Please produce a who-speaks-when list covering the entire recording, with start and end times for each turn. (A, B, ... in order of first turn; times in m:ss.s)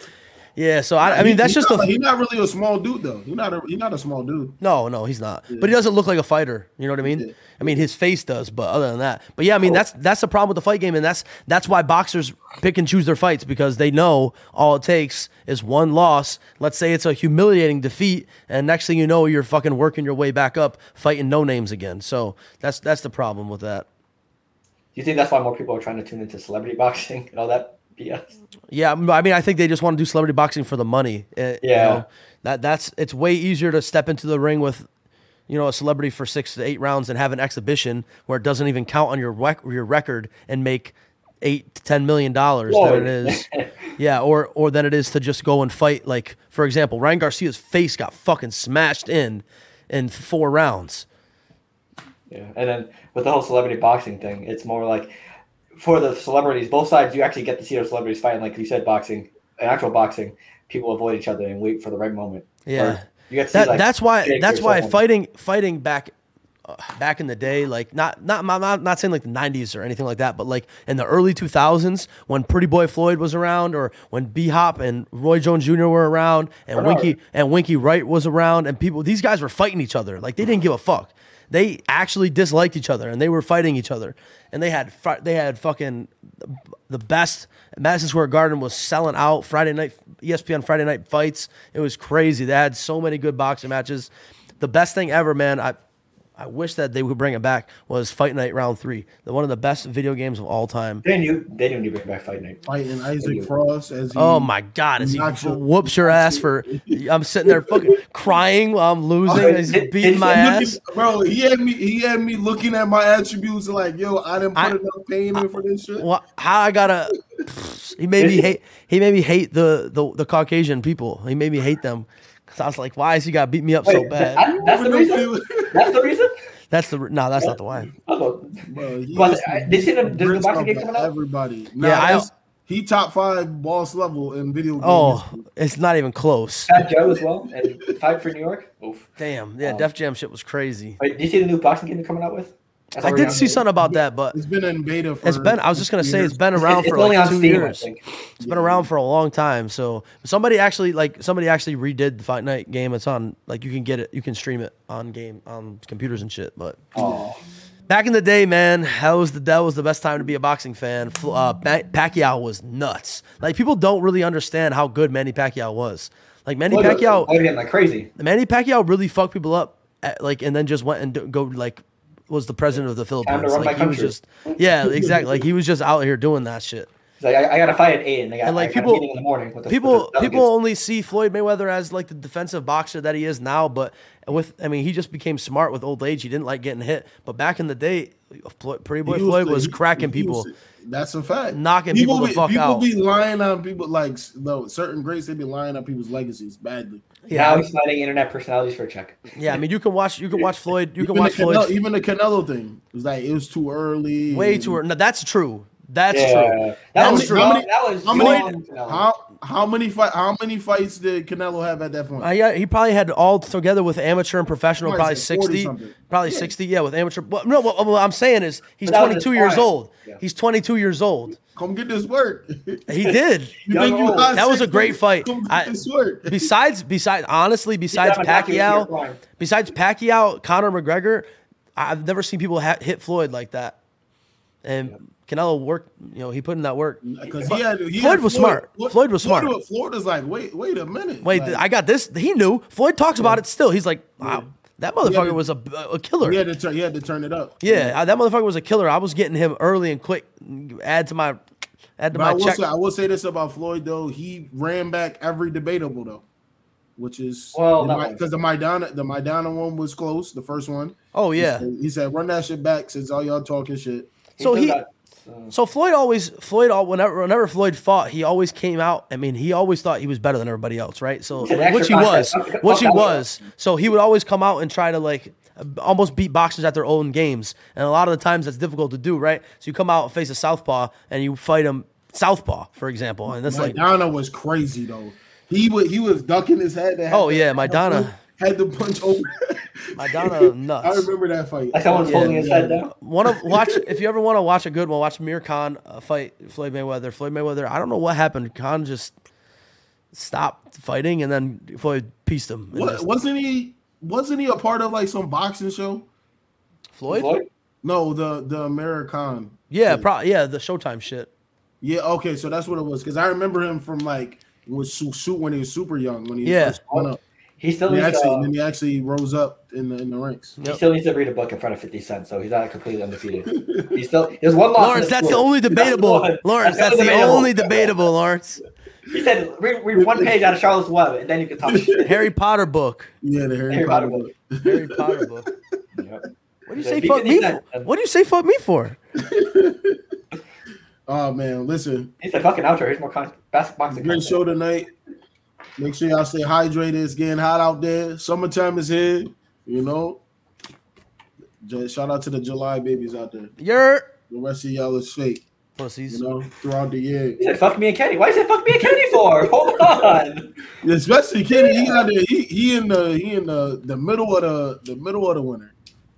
0:00.6-0:01.9 A
0:01.0-0:04.6 B
0:04.6-0:23.8 A
0:07.0-0:07.8 B
0:24.9-0:28.3 C
0:28.7-0:34.9 A
0:31.6-0:32.0 C
0:35.5-0:51.0 A
0:42.7-0:43.9 C
0:52.3-0:55.1 C
0:55.8-1:05.0 C
1:02.6-1:06.1 A
1:06.6-1:35.8 A
1:16.8-1:17.1 C
1:36.4-1:41.0 A
1:41.0-1:42.6 C
1:42.6-1:48.0 B
1:43.2-1:43.5 C
1:44.1-1:50.8 A
1:49.2-1:50.4 C
1:49.3-1:56.1 B
1:55.3-2:04.4 A
1:58.2-1:58.5 C
2:03.8-2:06.3 C
2:04.4-2:05.9 B
2:06.7-2:07.9 A
2:07.4-2:11.1 C
2:08.7-2:15.3 B
2:11.8-2:12.3 A
2:14.8-2:16.8 A
2:16.7-2:19.1 C
2:19.2-2:21.0 A
2:19.6-2:19.9 C
2:21.0-2:23.6 C
2:23.0-2:24.4 A
2:23.0-2:26.4 B
2:25.2-2:27.9 A
2:26.5-2:28.0 C
2:28.4-2:37.0 A
2:28.4-2:28.9 B
2:36.9-2:37.4 C
2:37.9-2:47.3 A
2:46.7-2:48.1 C
2:48.2-2:56.9 A
2:53.2-2:54.1 C
2:54.8-2:55.5 B
2:57.2-3:00.5 C
2:58.4-2:59.0 A
2:59.7-3:10.5 A
3:09.0-3:17.1 B
3:11.5-3:12.8 A
3:17.2-3:17.6 A
3:17.3-3:19.3 C
3:19.3-3:21.7 A
3:21.0-3:24.8 B
3:24.3-3:28.5 A
3:26.1-3:29.1 C
3:27.0-3:32.3 B
3:32.2-3:41.4 A
3:34.8-3:36.5 B
3:38.8-3:40.2 C
3:41.5-3:46.5 B
3:42.9-3:43.6 A
3:43.7-3:44.3 C
3:44.3-3:45.7 A
3:46.2-3:53.8 A
3:47.9-3:49.2 C
3:54.6-3:59.5 A
3:57.0-4:01.6 B
4:01.2-4:06.4 A
4:04.2-4:04.5 B
4:05.0-4:05.4 B
4:06.2-4:08.0 B
4:07.6-4:11.4 A
4:12.0-4:12.6 A
4:12.1-4:16.2 B
4:17.0-4:24.1 B
4:17.5-4:18.2 C
4:21.1-4:21.6 A
4:24.4-4:24.8 A
4:24.4-4:25.5 C
4:25.5-4:43.8 A
4:31.4-4:33.2 C
4:43.3-4:53.9 B
4:47.1-4:48.2 A
4:50.0-4:51.1 A
4:51.7-4:52.9 C
4:52.0-4:59.1 A
5:00.1-5:03.1 A
5:02.7-5:06.1 B
5:06.9-5:07.3 A
5:07.1-5:07.5 C
5:07.8-5:10.1 B
5:09.7-5:11.3 A
5:11.8-5:17.2 B
5:16.4-5:16.8 A
5:17.6-5:18.5 C
5:17.9-5:20.6 B
5:20.6-5:28.0 C
5:23.5-5:24.0 B
5:24.8-5:28.6 A
5:29.1-5:32.1 C
5:30.0-5:30.4 B
5:31.7-5:32.1 B
5:32.0-5:33.1 A
5:33.2-5:35.3 B
5:33.7-5:34.3 C
5:34.6-5:35.5 A
5:36.0-5:37.9 C
5:36.7-5:39.0 A
5:39.2-5:40.0 B
5:41.1-5:42.1 B
5:42.2-5:44.4 C
5:43.9-5:44.9 B
5:45.8-5:50.2 B
5:51.6-5:53.5 B
5:53.6-5:54.1 A
5:54.3-5:55.4 B
5:55.8-5:56.2 A
5:56.1-5:57.4 B
5:57.4-6:00.6 C
5:58.8-5:59.4 B
6:00.7-6:05.7 B
6:01.5-6:02.1 C